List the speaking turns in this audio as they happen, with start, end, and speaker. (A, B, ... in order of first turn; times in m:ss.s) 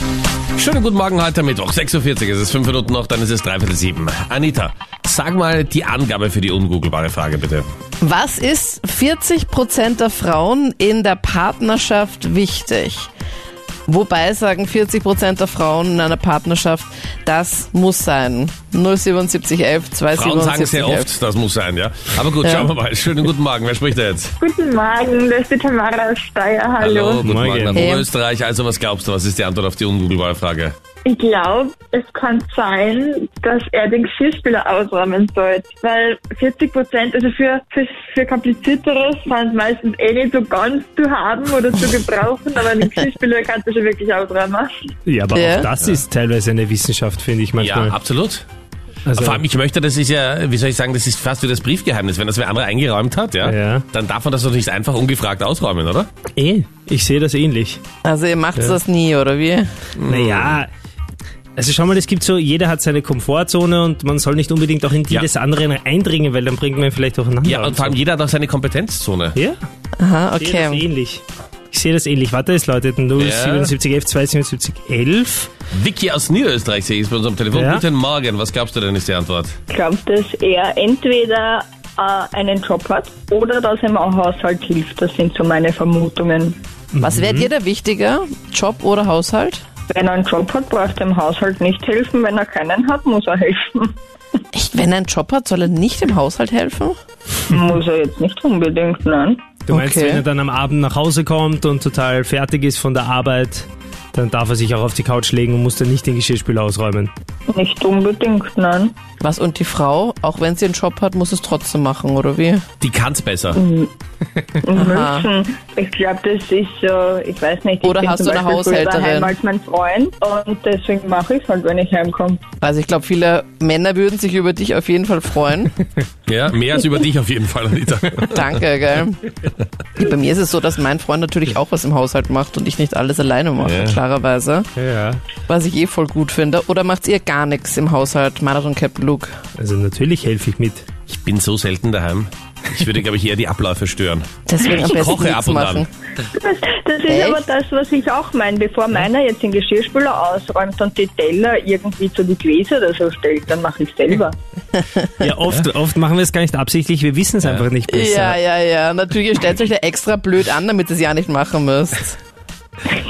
0:00.6-0:07.7 A
0:08.0-0:13.1 B
0:13.9-0:21.1 B
0:20.1-0:24.3 A
0:22.4-0:22.7 B
0:24.4-0:27.1 C
0:26.8-0:30.7 A
0:27.2-0:27.9 D
0:27.7-0:28.1 B
0:31.0-0:44.7 C
0:45.0-0:47.9 D
0:45.3-0:45.7 B
0:47.6-0:48.4 A
0:49.1-0:49.4 D
0:49.1-0:56.1 A
0:53.4-0:53.8 D
0:56.4-0:57.8 D
0:58.0-0:59.7 B
1:00.0-1:00.6 A
1:00.1-1:00.7 D
1:01.6-1:07.9 D
1:07.4-1:09.4 A
1:09.3-1:09.6 D
1:10.0-1:10.8 B
1:10.4-1:15.5 D
1:13.2-1:13.7 A
1:15.7-1:19.6 A
1:17.5-1:17.8 D
1:19.7-1:26.6 E
1:26.9-1:27.5 D
1:27.0-1:29.6 B
1:29.9-1:34.0 E
1:34.5-1:37.0 B
1:37.5-1:39.5 E
1:39.7-1:40.2 B
1:39.7-1:47.1 D
1:47.5-1:49.0 E
1:49.2-1:52.6 B
1:52.8-1:53.6 A
1:53.5-1:53.9 E
1:54.6-2:02.4 E
1:54.8-1:55.3 B
1:57.8-1:59.3 B
2:02.6-2:05.7 B
2:06.3-2:08.4 A
2:08.3-2:09.2 B
2:10.0-2:14.7 B
2:13.6-2:14.0 A
2:14.8-2:15.2 D
2:15.5-2:19.3 B
2:19.6-2:20.9 D
2:21.1-2:25.8 A
2:24.4-2:25.9 B
2:26.3-2:34.4 E
2:27.1-2:27.4 B
2:35.2-2:38.4 D
2:37.9-2:42.2 B